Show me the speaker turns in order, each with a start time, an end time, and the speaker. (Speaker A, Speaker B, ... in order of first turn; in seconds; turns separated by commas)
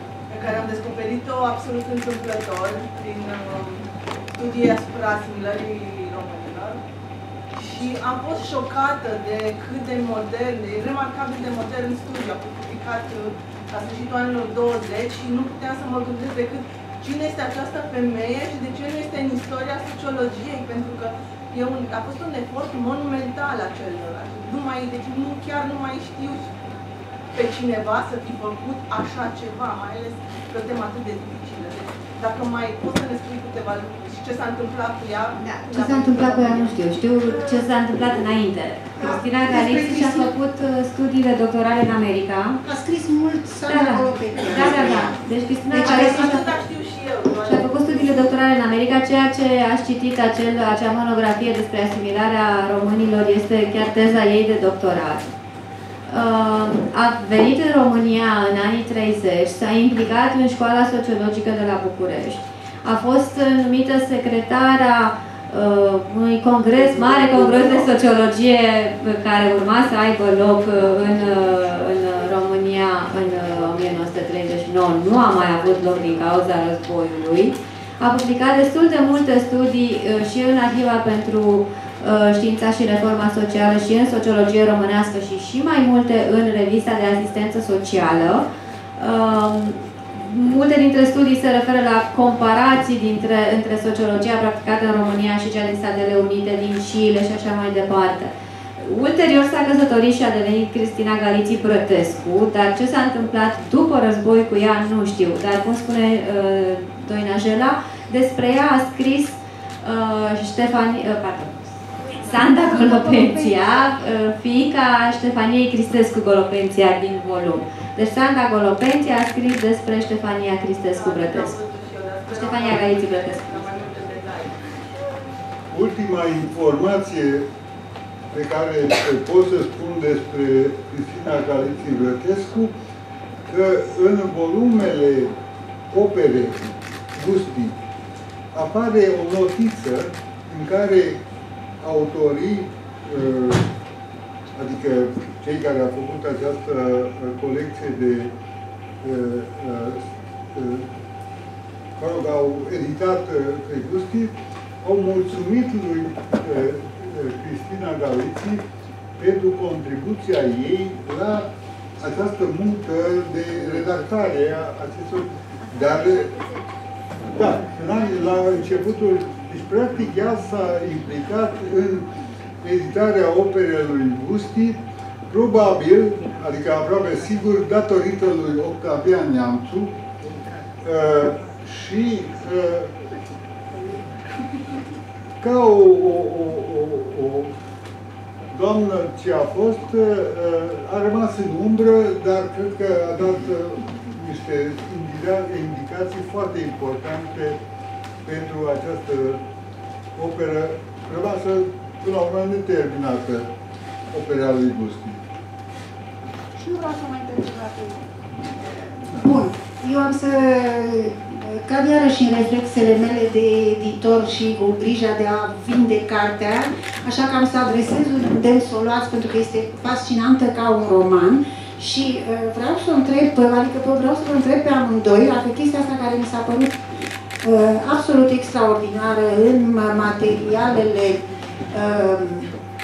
Speaker A: 0.3-3.8, Speaker A: 4.3-6.8, Speaker A: 7.5-26.5, Speaker A: 27.3-36.7, Speaker B: 35.5-42.6, Speaker C: 37.3-37.6, Speaker C: 39.0-40.3, Speaker C: 42.6-46.5, Speaker B: 43.7-46.4, Speaker A: 45.8-48.3, Speaker B: 47.4-55.3, Speaker B: 56.1-88.4, Speaker A: 66.7-68.0, Speaker B: 89.0-121.5, Speaker C: 112.0-113.8, Speaker A: 120.9-124.7, Speaker B: 122.3-123.8, Speaker D: 125.7-127.5, Speaker D: 128.3-132.7, Speaker D: 133.5-135.4, Speaker D: 135.9-137.7, Speaker D: 138.5-141.2, Speaker D: 141.8-143.7, Speaker D: 144.6-148.3, Speaker D: 149.0-150.8, Speaker D: 152.0-158.6, Speaker D: 159.2-166.3, Speaker D: 167.3-172.1, Speaker D: 172.6-174.8, Speaker D: 175.3-179.9, Speaker D: 180.8-182.9, Speaker D: 185.4-187.5, Speaker D: 188.5-197.6, Speaker D: 198.2-199.4, Speaker D: 200.2-203.5, Speaker D: 204.1-205.2, Speaker C: 206.6-226.8, Speaker C: 227.4-232.5